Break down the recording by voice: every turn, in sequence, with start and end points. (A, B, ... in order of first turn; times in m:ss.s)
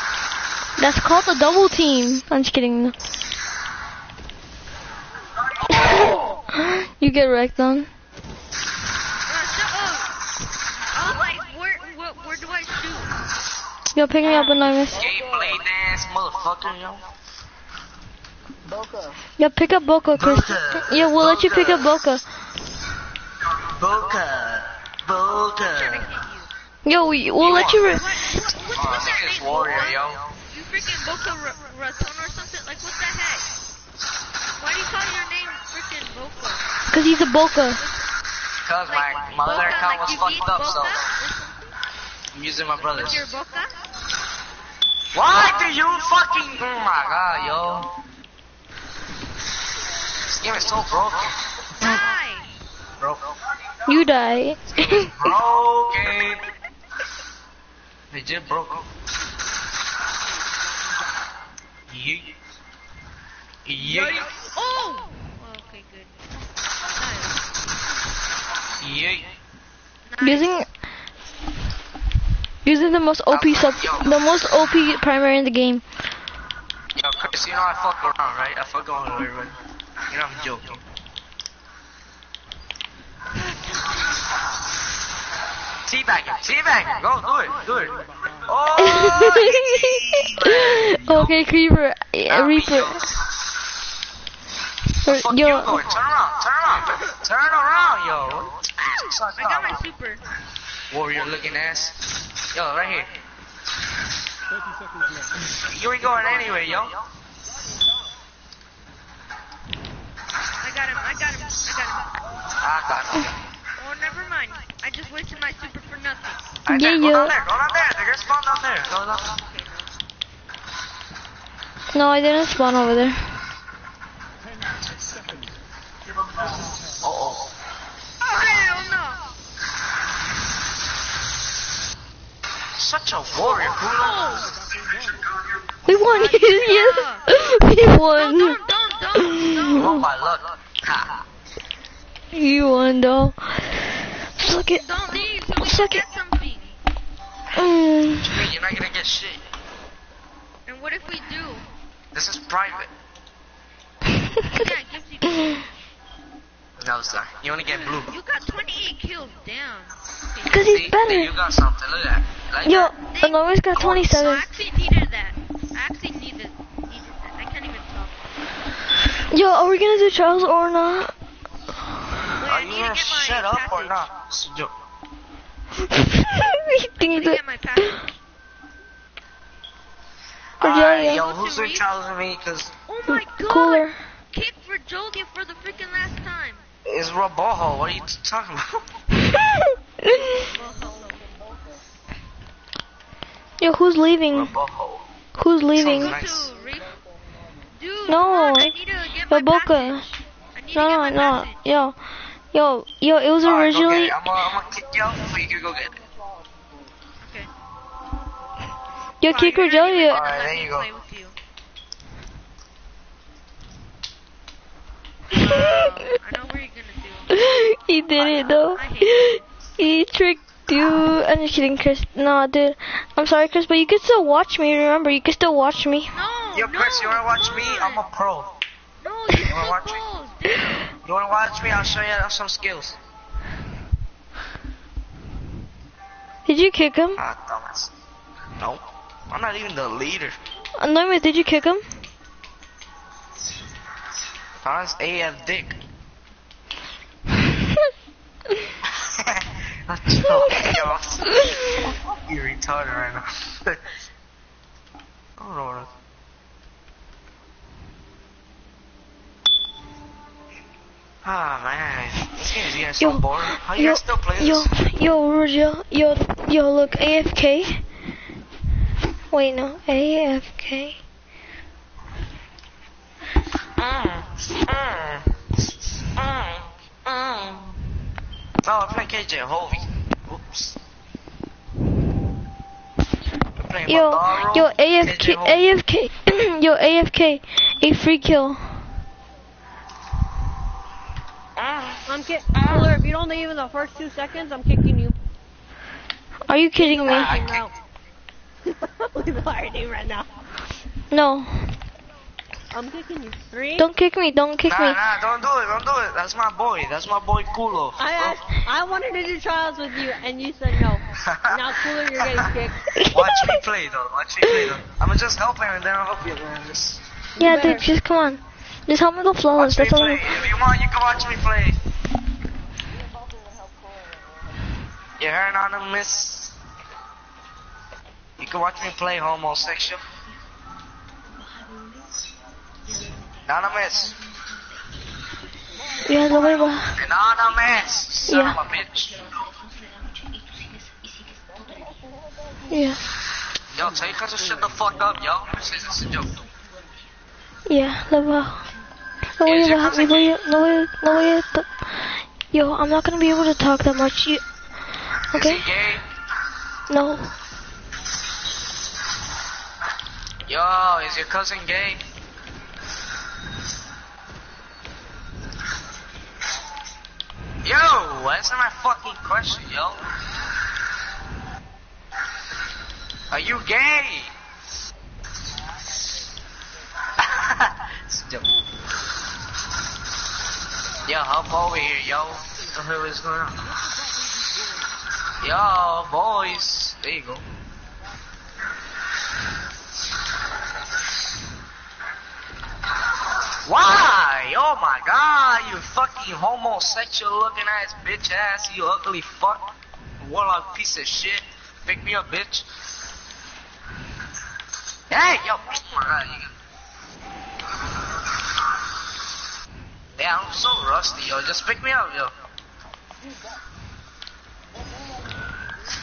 0:00.8-0:03.0 A
0:06.5-0:07.9 A
0:09.3-0:10.1 B
0:10.9-0:13.1 B
0:13.9-0:15.0 A
0:14.2-0:14.7 B
0:14.9-0:17.1 C
0:19.4-0:22.2 A
0:20.1-0:21.9 C
0:23.7-0:26.1 C
0:25.6-0:26.5 B
0:26.8-0:28.0 A
0:27.4-0:30.3 C
0:27.9-0:33.5 B
0:34.6-0:36.7 B
0:36.9-0:37.8 A
0:38.6-0:41.0 C
0:38.9-0:41.8 B
0:42.3-0:43.2 C
0:42.8-0:43.8 B
0:45.1-0:47.9 C
0:50.3-0:51.4 C
0:51.8-0:52.5 B
0:53.9-0:55.2 A
0:54.8-0:56.4 C
0:58.1-0:58.8 C
1:01.9-1:02.3 C
1:03.6-1:04.3 C
1:03.8-1:06.2 B
1:06.9-1:07.4 B
1:08.8-1:09.3 C
1:10.1-1:10.5 B
1:10.2-1:10.7 A
1:12.6-1:15.8 A
1:13.3-1:14.2 C
1:17.0-1:19.5 C
1:20.1-1:20.8 C
1:25.8-1:31.4 C
1:28.8-1:33.0 A
1:32.3-1:33.1 C
1:35.0-1:35.8 A
1:35.1-1:39.8 C
1:39.4-1:40.2 B
1:40.9-1:42.0 C
1:42.5-1:43.1 C
1:45.5-1:47.0 C
1:50.6-1:52.1 B
1:52.6-1:53.4 C
1:53.8-1:56.4 B
1:56.6-1:59.3 C
1:56.7-1:57.3 A
1:59.2-1:59.9 B
2:01.9-2:03.2 A
2:06.9-2:07.5 C
2:08.2-2:09.3 B
2:12.8-2:14.5 C
2:13.4-2:14.6 B
2:15.9-2:18.6 A
2:15.9-2:17.2 B
2:18.1-2:20.0 B
2:19.2-2:20.0 A
2:19.7-2:21.2 C
2:22.3-2:23.9 A
2:24.4-2:26.0 A
2:24.7-2:26.8 B
2:27.5-2:28.4 A
2:28.2-2:29.4 C
2:30.7-2:31.7 B
2:32.1-2:32.9 C
2:34.5-2:35.7 B
2:36.8-2:38.1 C
2:37.7-2:40.9 B
2:40.5-2:41.3 A
2:40.6-2:42.9 C
2:42.6-2:44.5 A
2:43.1-2:48.2 B
2:49.3-2:51.1 A
2:52.4-2:54.1 B
2:52.4-2:54.7 C
2:55.9-2:58.0 A
2:57.0-2:58.1 B
3:00.6-3:01.2 A
3:00.6-3:02.7 C
3:01.0-3:01.9 B
3:02.9-3:06.6 B
3:03.1-3:04.0 A
3:06.8-3:08.8 C
3:09.4-3:10.4 A
3:10.3-3:11.2 B
3:13.6-3:14.6 A
3:14.3-3:15.1 C
3:15.4-3:16.1 A
3:15.7-3:16.5 C
3:15.8-3:17.0 B
3:17.8-3:21.6 B
3:18.1-3:18.8 A
3:19.3-3:20.0 A
3:20.7-3:22.0 A
3:22.5-3:24.2 A
3:23.4-3:26.0 C
3:27.2-3:27.5 B
3:29.2-3:30.2 A
3:29.2-3:31.4 B
3:30.1-3:30.9 C
3:35.3-3:37.4 B
3:37.3-3:46.2 A
3:38.2-3:39.4 B
3:46.1-3:48.0 B
3:46.6-3:48.5 C
3:49.0-3:50.9 B
3:49.4-3:50.0 C
3:51.0-3:53.0 C
3:56.5-3:57.2 A
3:57.2-3:57.9 C
3:58.6-4:00.4 C
4:00.8-4:01.8 A
4:04.6-4:05.8 C
4:08.8-4:13.8 C
4:15.4-4:15.9 C
4:21.2-4:24.7 C
4:23.0-4:27.8 A
4:29.3-4:31.0 A
4:33.8-4:35.3 C
4:36.2-4:37.8 C
4:38.6-4:40.8 C
4:43.6-4:45.6 C
4:43.9-4:48.8 A
4:51.6-4:52.0 C
4:52.1-4:55.2 D
4:52.6-4:53.0 C
4:56.5-4:57.4 A
4:56.8-4:57.7 D
4:57.0-4:57.6 C
4:58.6-5:00.3 D
5:01.1-5:01.7 A
5:02.7-5:03.9 D
5:03.8-5:05.0 A
5:04.7-5:08.4 C
5:08.0-5:12.9 D
5:11.2-5:11.7 C
5:12.2-5:12.4 C
5:13.0-5:13.6 A
5:13.0-5:17.0 C
5:17.4-5:17.9 D
5:17.4-5:20.3 A
5:19.6-5:21.8 C
5:25.2-5:26.5 C
5:28.4-5:30.0 C
5:33.5-5:34.2 C
5:36.0-5:37.0 A
5:36.9-5:39.3 C
5:38.3-5:38.6 A
5:42.7-5:43.0 A
5:43.7-5:46.4 C
5:47.7-5:48.7 A
5:49.4-5:54.4 A
5:49.4-5:50.4 C
5:55.3-5:55.7 A
5:55.3-5:56.0 C
5:56.9-5:57.3 A
6:00.5-6:02.0 C
6:07.6-6:10.0 C
6:13.3-6:14.3 C
6:17.2-6:18.5 C
6:21.0-6:23.7 C
6:25.4-6:27.4 C
6:33.6-6:42.7 C
6:45.1-6:46.5 C
6:50.2-6:52.3 C